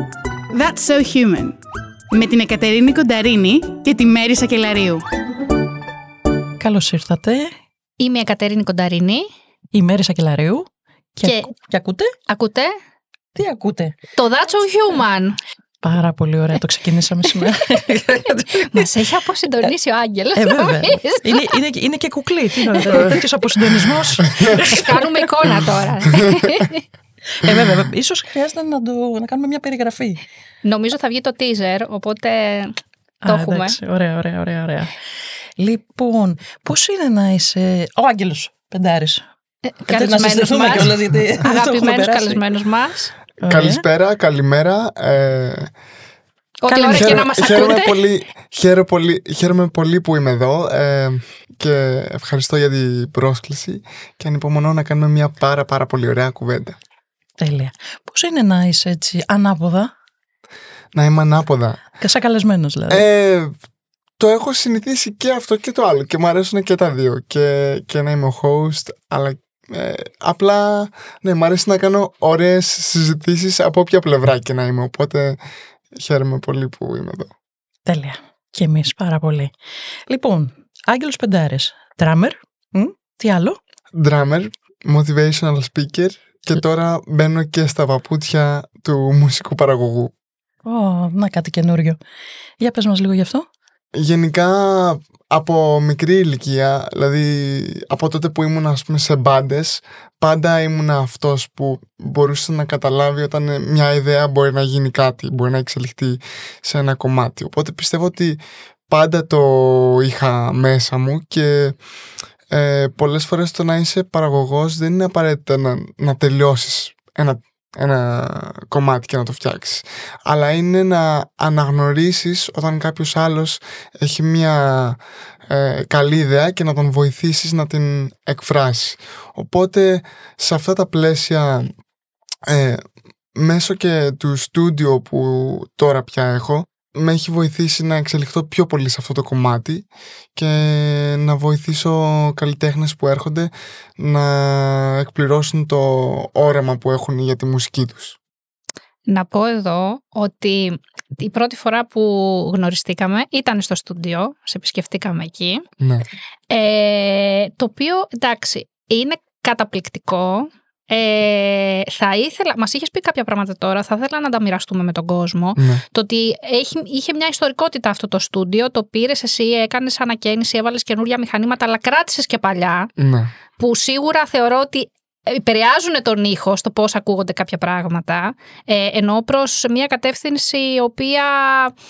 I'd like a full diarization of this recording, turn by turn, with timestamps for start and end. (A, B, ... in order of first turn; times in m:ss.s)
0:00.5-0:01.6 A
0:02.1-0:05.0 A
0:06.6-0:07.5 B
0:08.0-0:09.2 C
0:09.7-0:12.1 B
0:11.2-0:11.5 C
0:12.3-0:12.8 C
0:13.3-0:13.9 B
0:14.2-0:15.4 C
0:15.8-0:18.8 B
0:18.6-0:21.5 C
0:20.4-0:26.2 B
0:22.8-0:23.2 C
0:24.4-0:26.8 C
0:27.3-0:30.2 B
0:27.4-0:27.7 D
0:30.6-0:32.7 C
0:33.2-0:34.9 B
0:33.2-0:33.8 C
0:35.6-0:39.2 B
0:39.6-0:43.1 C
0:39.9-0:42.4 B
0:43.4-0:45.7 D
0:43.4-0:43.8 B
0:46.6-0:48.0 C
0:46.7-0:47.3 B
0:46.9-0:56.8 D
0:57.4-0:59.9 B
1:00.9-1:01.8 D
1:02.0-1:03.0 B
1:02.9-1:03.5 D
1:04.2-1:15.4 D
1:15.9-1:17.3 D
1:17.8-1:19.5 B
1:20.1-1:23.6 B
1:23.9-1:30.1 D
1:30.6-1:32.0 B
1:32.6-1:33.5 B
1:33.9-1:51.8 D
1:52.5-2:11.7 D
2:12.5-2:12.8 D
2:13.3-2:28.2 D
2:29.1-2:35.6 C
2:35.8-2:36.0 D
2:36.5-2:52.9 C
2:45.6-2:45.8 D
2:53.0-2:53.3 D
2:53.6-3:01.7 C